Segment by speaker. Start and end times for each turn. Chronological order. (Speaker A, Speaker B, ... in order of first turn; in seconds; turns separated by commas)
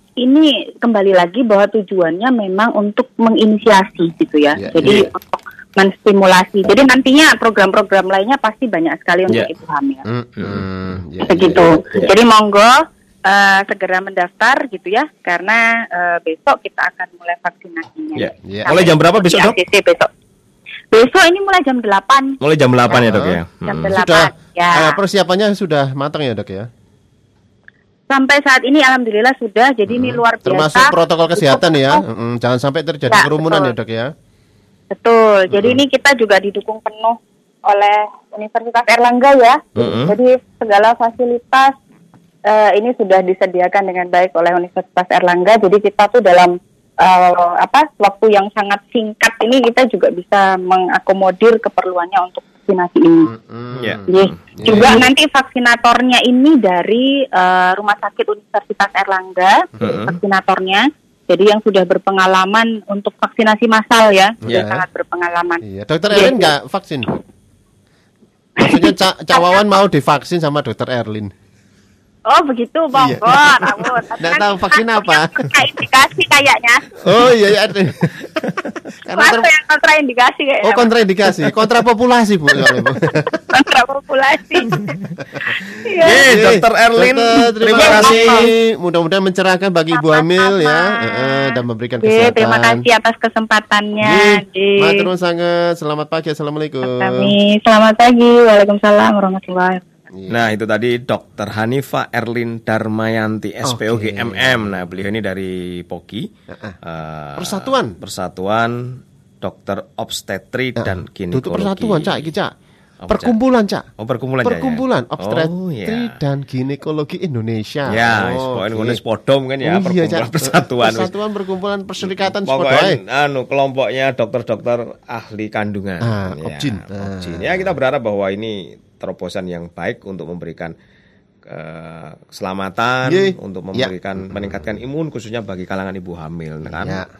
Speaker A: 0.2-10.0, Speaker B: 4.6-5.1, Speaker B: 10.1-12.1, Speaker C: 10.4-10.7, Speaker A: 11.3-12.8, Speaker A: 13.3-20.1, Speaker C: 18.2-19.6, Speaker B: 18.4-18.9, Speaker A: 20.9-22.4, Speaker C: 22.4-24.0, Speaker B: 22.9-26.7, Speaker A: 23.6-25.0, Speaker A: 28.1-32.0, Speaker B: 30.0-34.1, Speaker A: 33.1-33.7, Speaker A: 34.9-41.7, Speaker B: 35.5-35.8, Speaker C: 39.8-40.1, Speaker A: 42.5-53.3, Speaker B: 53.3-55.1, Speaker C: 53.8-54.3, Speaker A: 54.1-66.5, Speaker C: 59.8-60.2, Speaker B: 64.4-64.8, Speaker B: 65.6-67.1, Speaker A: 68.6-69.6, Speaker B: 68.6-71.3, Speaker A: 72.3-76.9, Speaker B: 72.9-73.7, Speaker B: 74.2-75.5, Speaker B: 77.0-78.3, Speaker B: 79.0-79.5, Speaker A: 79.2-80.9, Speaker B: 80.6-83.3, Speaker A: 83.5-84.9, Speaker A: 85.4-86.3, Speaker C: 86.0-88.5, Speaker B: 86.1-92.8, Speaker A: 87.7-88.5, Speaker A: 89.9-91.5, Speaker A: 92.0-95.1, Speaker B: 94.0-97.4, Speaker A: 96.8-100.0, Speaker B: 100.1-100.5, Speaker C: 100.3-106.3, Speaker B: 103.6-104.7, Speaker B: 106.5-106.8, Speaker C: 106.8-112.3, Speaker B: 107.4-108.0, Speaker B: 110.8-112.5, Speaker C: 113.0-113.3, Speaker B: 113.1-113.9, Speaker C: 114.0-116.2, Speaker B: 114.4-119.0, Speaker C: 117.9-121.1, Speaker B: 119.6-123.0, Speaker C: 122.0-130.7, Speaker B: 126.0-127.7, Speaker C: 131.5-137.0, Speaker B: 133.1-134.6, Speaker B: 136.7-137.1